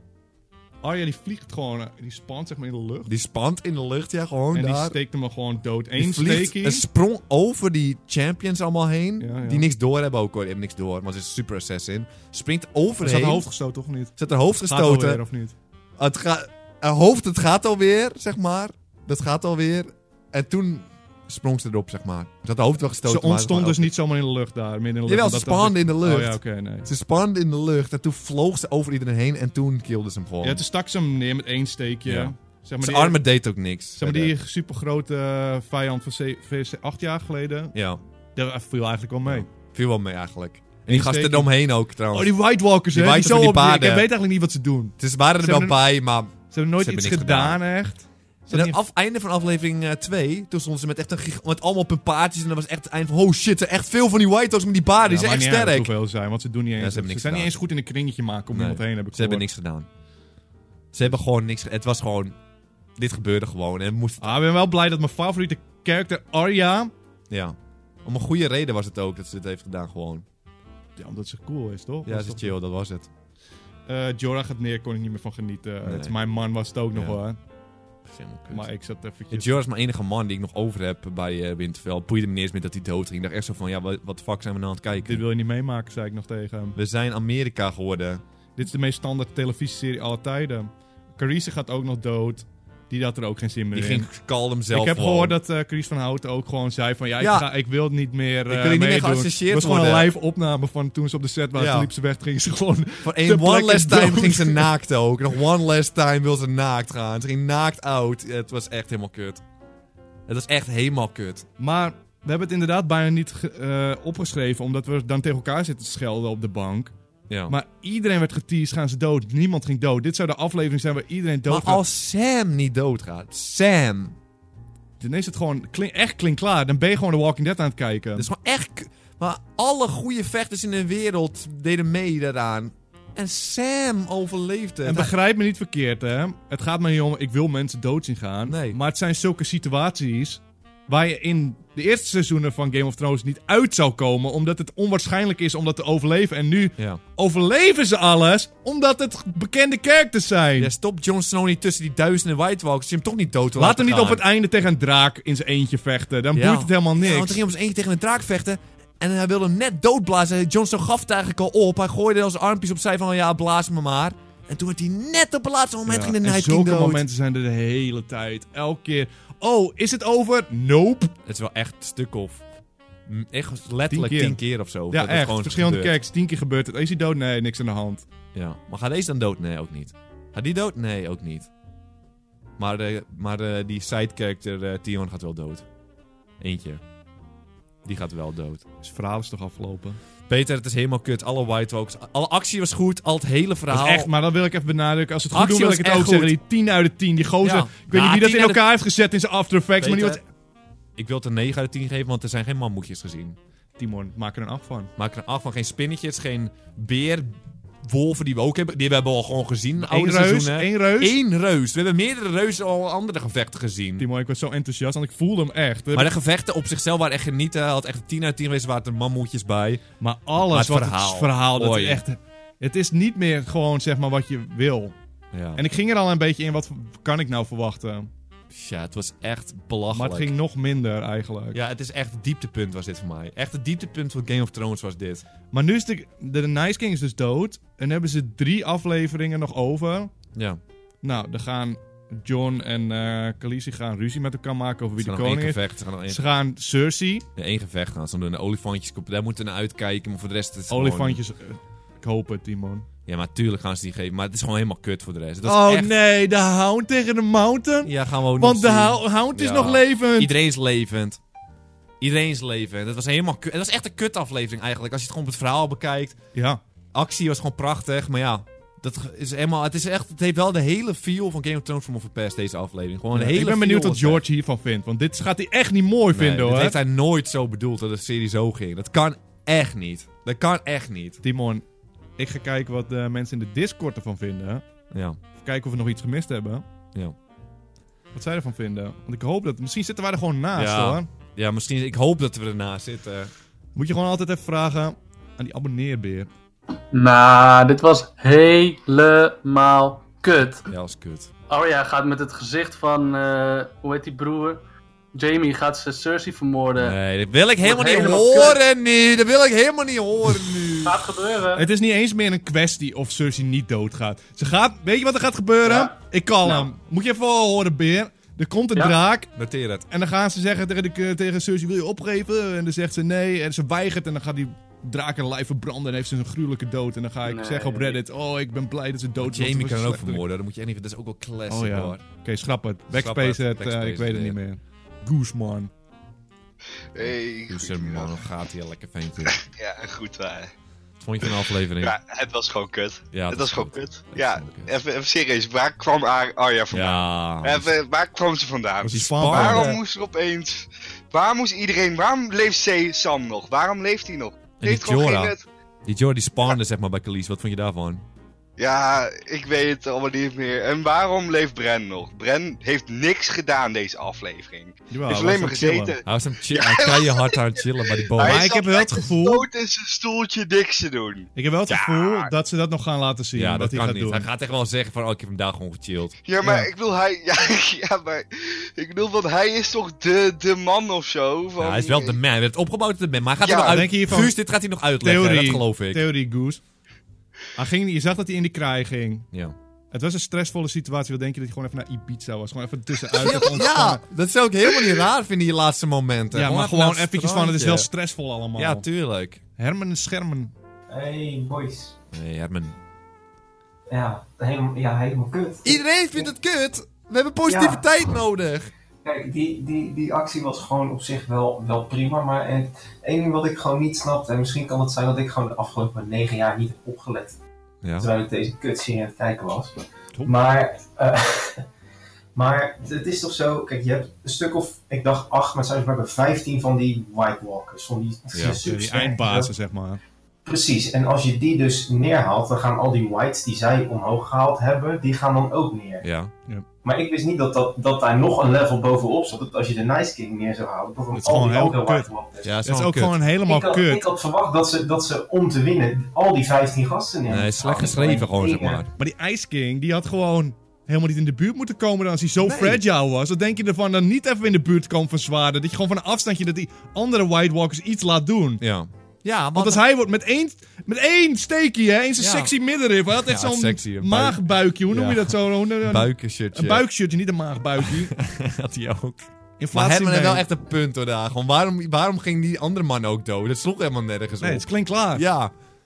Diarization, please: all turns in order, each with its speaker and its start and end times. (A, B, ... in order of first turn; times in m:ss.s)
0:00.8-0:03.1 A
0:03.1-0:05.0 B
0:04.5-0:06.8 A
0:06.0-0:13.5 B
0:09.2-0:09.7 A
0:13.0-0:15.5 A
0:14.2-0:15.2 B
0:16.0-0:23.9 B
0:23.0-0:26.9 A
0:25.1-0:30.6 B
0:30.4-0:33.2 A
0:32.0-0:34.3 B
0:34.0-0:37.7 A
0:37.7-0:38.0 B
0:38.4-0:39.5 A
0:39.2-0:42.4 B
0:40.9-0:41.5 A
0:42.1-0:45.8 A
0:42.9-0:44.1 B
0:45.0-0:47.6 B
0:46.5-0:48.8 A
0:48.5-0:55.9 B
0:55.0-0:59.4 A
0:56.8-0:57.6 B
0:58.5-0:59.9 B
1:00.9-1:02.4 B
1:03.0-1:04.3 B
1:04.2-1:06.9 A
1:07.3-1:10.2 B
1:11.0-1:12.5 A
1:12.0-1:13.1 B
1:13.9-1:17.4 A
1:15.8-1:16.1 B
1:16.9-1:17.2 B
1:18.0-1:18.7 B
1:18.5-1:19.6 A
1:19.3-1:25.2 B
1:25.0-1:26.8 A
1:26.8-1:28.2 B
1:28.6-1:34.1 A
1:33.7-1:35.4 B
1:34.7-1:44.7 A
1:37.2-1:37.5 B
1:38.5-1:40.1 B
1:41.5-1:41.9 B
1:43.0-1:49.4 B
1:50.3-1:51.5 B
1:51.6-1:56.9 A
1:57.3-1:57.5 B
1:57.5-2:01.8 A
2:01.5-2:04.2 B
2:05.0-2:08.3 A
2:08.2-2:15.1 B
2:14.8-2:30.7 A
2:18.4-2:18.8 B
2:30.6-2:34.2 B
2:33.6-2:37.4 A
2:36.3-2:47.0 B
2:45.8-2:51.1 A
2:51.2-2:52.4 B
2:53.0-2:55.9 B
2:53.9-2:58.0 A
2:58.3-3:01.5 B
3:02.6-3:05.6 B
3:06.4-3:06.8 B
3:07.8-3:08.6 B
3:08.8-3:10.0 A
3:10.3-3:14.1 B
3:13.7-3:20.2 A
3:15.3-3:16.4 B
3:17.4-3:18.6 B
3:19.8-3:20.2 B
3:21.0-3:23.4 B
3:23.8-3:24.9 A
3:25.0-3:34.0 B
3:29.8-3:31.2 A
3:34.0-3:36.1 A
3:35.9-3:39.8 B
3:40.0-3:44.9 A
3:40.4-3:42.0 B
3:45.3-3:45.6 B
3:45.5-3:48.1 A
3:48.5-3:50.3 B
3:49.9-3:51.6 A
3:51.5-3:55.2 B
3:55.5-4:00.1 A
4:00.3-4:00.6 B
4:01.0-4:07.2 A
4:05.0-4:06.2 B
4:07.4-4:11.2 B
4:10.7-4:12.9 A
4:13.0-4:15.9 B
4:15.4-4:20.3 A
4:17.8-4:21.2 B
4:22.0-4:26.2 B
4:26.3-4:26.6 A
4:26.9-4:34.2 B
4:33.1-4:36.8 A
4:36.1-4:41.2 B
4:41.2-4:41.6 A
4:42.2-4:44.6 A
4:44.9-4:45.2 B
4:45.4-4:46.6 A
4:48.1-4:51.1 A
4:50.5-4:53.3 B
4:53.8-4:56.3 A
4:56.9-5:00.7 C
5:00.7-5:01.3 B
5:01.5-5:04.6 C
5:05.1-5:07.0 C
5:06.8-5:11.0 B
5:07.6-5:08.6 C
5:10.8-5:11.6 C
5:11.5-5:19.3 A
5:15.6-5:15.9 C
5:19.3-5:19.8 B
5:19.9-5:30.2 A
5:27.2-5:28.0 C
5:29.2-5:32.0 B
5:31.5-5:35.7 A
5:32.9-5:34.4 B
5:36.9-5:38.2 D
5:37.0-5:39.4 B
5:39.2-5:40.5 D
5:41.0-5:41.9 B
5:41.2-5:55.4 D
5:43.1-5:44.7 B
5:46.7-5:47.7 B
5:48.8-5:49.7 A
5:48.9-5:49.8 B
5:54.6-5:55.3 B
5:55.8-5:58.0 B
5:58.6-6:12.3 D
6:04.9-6:06.0 A
6:06.0-6:08.5 B
6:08.2-6:09.4 A
6:11.3-6:14.3 A
6:13.4-6:16.1 B
6:16.2-6:22.2 D
6:16.4-6:16.7 A
6:21.6-6:26.0 B
6:23.4-6:23.8 D
6:23.6-6:24.3 A
6:25.0-6:26.6 A
6:27.5-6:29.3 A
6:29.9-6:34.0 A
6:33.2-6:37.9 B
6:36.3-6:38.8 A
6:38.5-6:39.4 B
6:39.6-6:40.5 A
6:40.9-6:41.9 E
6:42.1-6:42.8 B
6:43.9-6:46.2 E
6:45.6-6:48.7 B
6:47.5-6:47.8 E
6:49.0-6:57.4 E
6:57.8-6:58.1 B
6:58.0-7:01.6 E
7:02.3-7:09.5 E
7:08.3-7:08.6 B
7:08.6-7:10.0 A
7:10.4-7:16.0 E
7:16.0-7:16.3 B
7:16.8-7:22.5 E
7:21.1-7:22.1 A
7:22.4-7:23.2 B
7:22.6-7:24.0 A
7:23.4-7:28.8 E
7:27.3-7:28.9 B
7:29.0-7:38.6 A
7:32.4-7:32.8 B
7:38.6-7:39.8 B
7:39.6-7:48.1 A
7:42.2-7:42.5 B
7:43.1-7:46.8 B
7:47.8-7:55.5 B
7:49.6-7:50.4 A
7:54.4-7:55.3 A